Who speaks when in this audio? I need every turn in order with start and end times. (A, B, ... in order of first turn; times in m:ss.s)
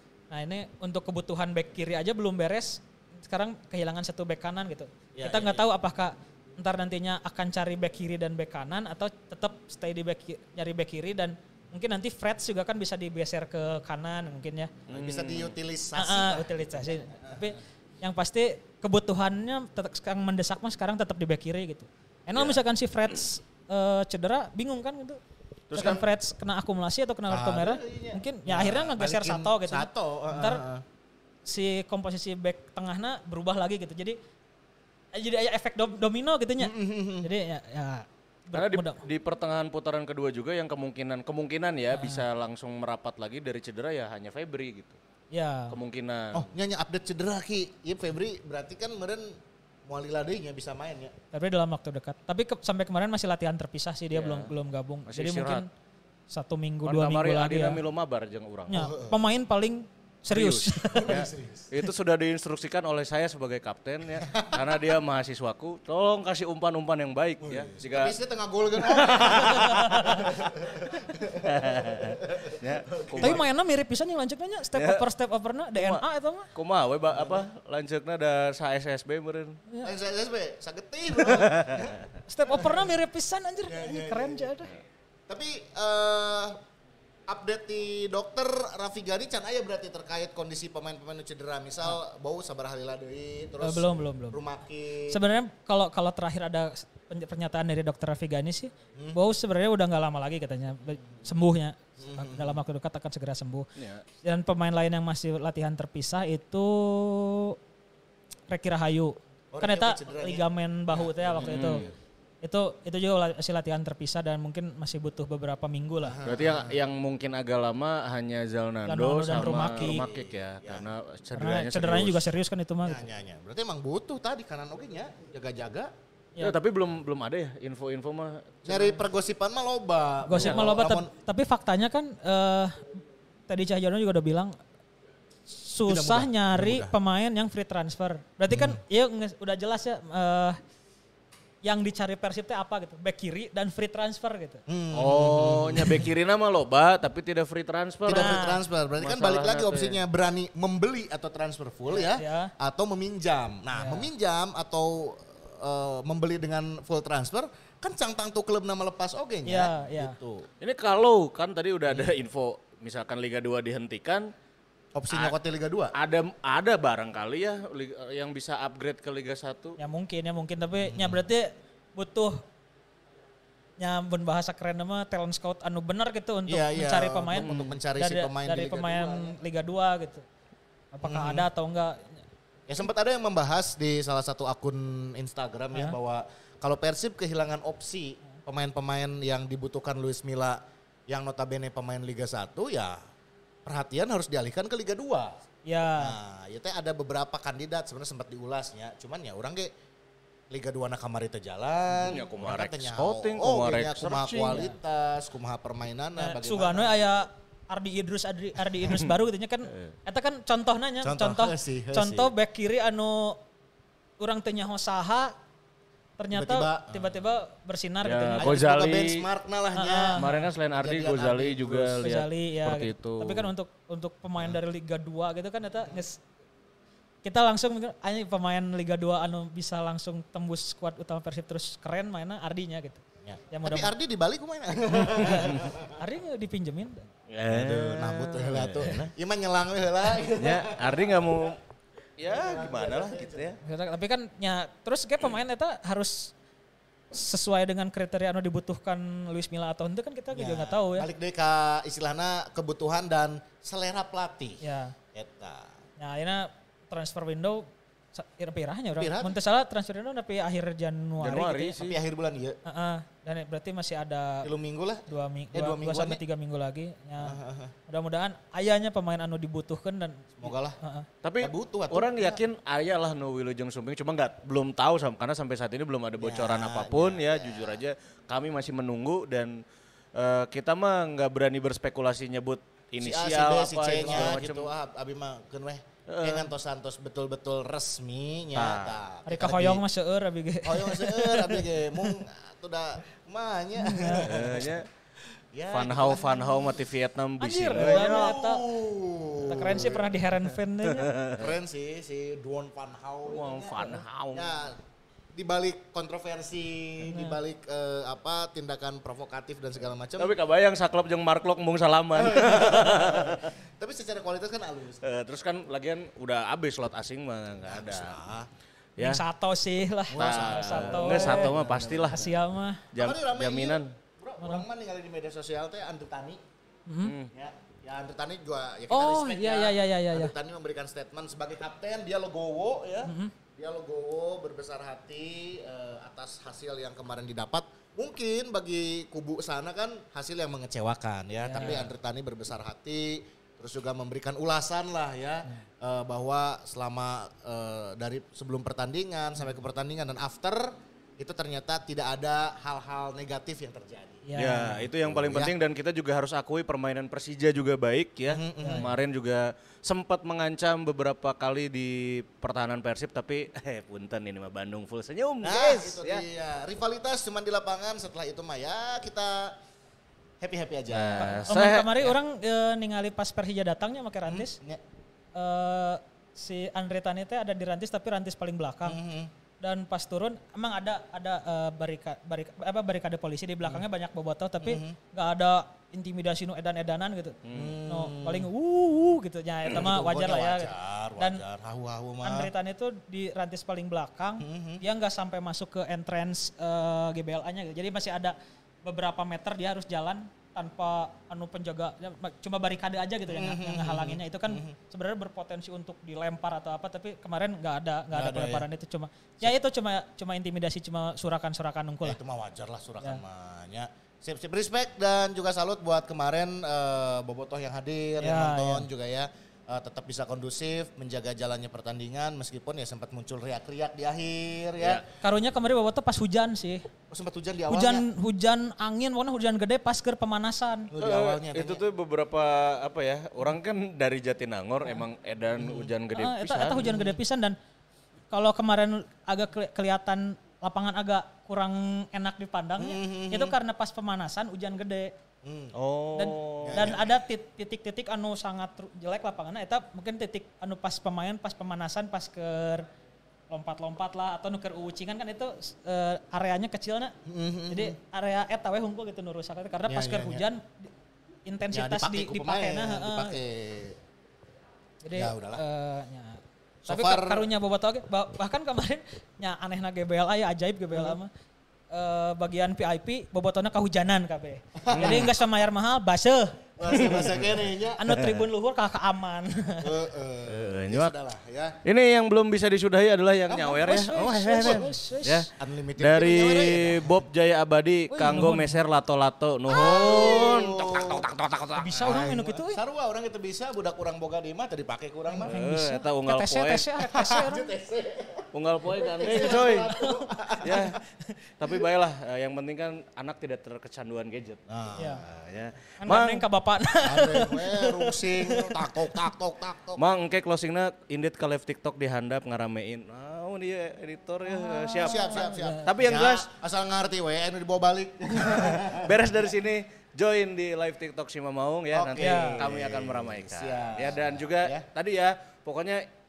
0:00.3-0:14.7 A
0:05.1-0:05.6 B
0:14.9-0:15.5 C
0:14.9-0:17.4 B
0:15.9-0:25.2 A
0:25.7-0:26.0 C
0:25.7-0:30.6 A
0:27.3-0:30.8 B
0:31.4-0:34.2 A
0:35.1-0:39.0 A
0:36.6-0:37.3 B
0:38.5-0:45.0 C
0:41.9-0:42.2 A
0:45.3-0:45.7 A
0:45.7-0:46.4 C
0:46.3-0:49.3 B
0:49.8-0:51.1 B
0:51.3-0:55.7 A
0:54.1-0:54.5 C
0:55.1-0:55.6 C
0:56.3-0:57.8 A
0:56.8-0:58.9 C
0:58.7-1:01.2 A
0:58.7-0:59.2 B
1:00.3-1:08.1 C
1:00.9-1:01.7 B
1:04.2-1:04.7 B
1:07.4-1:13.4 B
1:08.9-1:10.5 C
1:09.0-1:10.3 A
1:11.4-1:13.4 C
1:13.2-1:16.5 A
1:14.7-1:15.0 C
1:15.8-1:19.6 C
1:17.1-1:17.4 B
1:19.8-1:22.9 B
1:21.3-1:21.9 C
1:22.3-1:24.8 A
1:23.6-1:24.5 B
1:25.3-1:26.6 B
1:27.3-1:35.2 B
1:33.6-1:34.4 A
1:35.1-1:43.7 A
1:42.0-1:42.6 B
1:43.8-1:44.0 C
1:44.2-1:47.5 A
1:48.5-1:51.8 A
1:49.5-1:51.9 B
1:51.4-1:51.9 C
1:52.4-1:56.2 A
1:56.0-1:56.8 B
1:56.2-2:02.3 C
1:58.9-2:00.0 A
1:59.4-2:00.9 B
2:01.4-2:03.0 A
2:02.8-2:05.9 B
2:06.4-2:09.0 C
2:08.6-2:11.1 B
2:10.2-2:13.0 A
2:10.3-2:10.7 C
2:13.5-2:14.6 A
2:15.5-2:20.6 A
2:15.8-2:16.9 B
2:18.5-2:18.8 B
2:21.6-2:24.6 A
2:24.7-2:26.1 B
2:24.9-2:30.0 C
2:28.0-2:40.5 B
2:28.1-2:28.6 A
2:31.9-2:32.5 A
2:33.7-2:34.1 A
2:39.4-2:40.1 A
2:40.6-2:44.3 C
2:44.9-2:45.9 B
2:45.1-2:45.3 C
2:45.9-2:49.8 C
2:49.8-2:52.4 A
2:50.8-2:51.2 B
2:53.8-3:00.2 A
2:56.5-2:59.4 B
2:57.3-2:57.6 C
3:00.9-3:02.2 A
3:01.0-3:01.5 B
3:02.7-3:13.0 B
3:13.6-3:15.3 B
3:15.6-3:16.1 A
3:16.0-3:19.7 B
3:20.5-3:27.1 B
3:21.9-3:24.7 C
3:24.4-3:24.8 A
3:26.2-3:33.4 A
3:31.0-3:32.3 B
3:34.2-3:35.3 A
3:36.2-3:38.5 A
3:36.3-3:37.1 B
3:38.0-3:39.2 C
3:38.4-3:40.2 B
3:39.7-3:40.5 A
3:40.2-3:43.5 C
3:40.7-3:42.1 B
3:42.0-3:46.2 A
3:47.2-3:53.9 A
3:53.2-3:56.0 B
3:55.2-3:57.1 A
3:55.2-3:55.6 C
3:57.3-3:59.0 C
3:57.5-4:01.4 B
4:00.4-4:01.6 C
4:02.2-4:03.6 C
4:02.3-4:03.6 B
4:03.6-4:06.3 A
4:07.1-4:11.1 A
4:10.3-4:14.6 B
4:14.6-4:14.9 A
4:15.1-4:15.8 B
4:16.0-4:21.8 A
4:19.0-4:19.4 B
4:21.2-4:22.0 C
4:21.8-4:22.6 B
4:22.6-4:24.5 A
4:24.4-4:26.2 B
4:25.1-4:31.1 A
4:27.2-4:27.7 B
4:30.4-4:30.8 B
4:31.2-4:39.6 C
4:31.4-4:32.4 B
4:36.2-4:37.8 B
4:40.1-4:44.7 C
4:43.0-4:49.8 B
4:46.1-4:46.5 C
4:48.5-4:49.0 C
4:49.2-4:52.1 A
4:50.6-4:54.8 B
4:53.8-4:54.4 A
4:54.2-4:54.9 C
4:55.5-4:56.7 B
4:55.7-4:58.4 C
4:57.4-4:58.6 A
4:57.7-5:00.1 B
4:59.4-5:01.1 A
5:00.8-5:01.5 C
5:01.3-5:04.8 B
5:03.3-5:04.5 C
5:05.3-5:10.3 B
5:07.0-5:07.4 A
5:10.2-5:13.5 C
5:12.2-5:15.0 B
5:15.0-5:18.2 C
5:17.6-5:18.5 B
5:19.0-5:21.5 A
5:20.1-5:22.3 B
5:20.2-5:22.3 C
5:22.1-5:22.8 A
5:22.9-5:23.9 C
5:23.0-5:26.4 B
5:26.9-5:27.1 A
5:27.0-5:27.3 C
5:27.3-5:55.5 B
5:28.9-5:30.3 A
5:33.0-5:33.3 A
5:41.4-5:41.8 A
5:54.2-5:54.8 A
5:54.4-6:06.2 C
5:58.3-5:58.9 B
6:05.4-6:09.6 B
6:10.4-6:11.6 B
6:10.9-6:12.1 C
6:11.2-6:14.6 A
6:14.2-6:14.8 B
6:15.3-6:19.0 A
6:18.8-6:19.3 B
6:19.6-6:31.4 A
6:24.6-6:25.0 B
6:27.4-6:27.8 C
6:27.5-6:28.5 B
6:29.7-6:32.5 B
6:32.2-6:52.2 A
6:34.4-6:34.8 B
6:43.3-6:44.8 B
6:48.1-6:48.6 B
6:52.0-7:05.0 B
6:58.2-6:58.8 A
7:04.8-7:05.0 C
7:05.2-7:06.8 A
7:07.1-7:08.0 B
7:07.7-7:10.9 A
7:10.9-7:11.8 B
7:11.0-7:16.9 C
7:15.6-7:15.9 B
7:16.2-7:17.6 A
7:16.8-7:17.2 B
7:18.3-7:25.1 A
7:22.8-7:23.6 B
7:25.4-7:25.7 B
7:25.7-7:27.0 C
7:26.2-7:32.9 A
7:26.6-7:27.2 B
7:33.5-7:37.1 A
7:37.2-7:38.0 B
7:37.7-7:40.9 A
7:39.9-7:40.4 B
7:41.4-7:43.3 A
7:41.7-7:44.0 B
7:45.0-7:51.3 A
7:45.1-7:45.6 B
7:46.8-7:47.5 B
7:51.9-7:57.2 A
7:54.8-7:55.4 B
7:55.0-7:55.3 C
7:56.8-7:58.3 B
7:56.9-7:57.5 C
7:58.0-7:59.9 A
7:58.1-7:58.4 C
7:59.8-8:01.8 B
8:00.5-8:01.1 C
8:01.8-8:12.2 C
8:03.5-8:04.9 B
8:03.8-8:05.5 A
8:05.5-8:07.2 B
8:08.1-8:08.7 A
8:09.7-8:11.3 B
8:11.8-8:12.8 A
8:12.0-8:15.6 B
8:15.3-8:17.7 A
8:15.4-8:17.0 C
8:17.0-8:20.9 B
8:18.5-8:20.0 C
8:19.9-8:20.3 A
8:20.6-8:21.0 C
8:21.6-8:24.6 C
8:24.7-8:25.4 B
8:25.0-8:25.2 A
8:25.3-8:26.4 C
8:26.0-8:29.1 A
8:27.0-8:30.0 B
8:30.0-8:36.5 C
8:34.4-8:35.9 A
8:34.9-8:39.2 B
8:38.5-8:46.0 C
8:41.9-8:44.8 B
8:42.2-8:42.6 A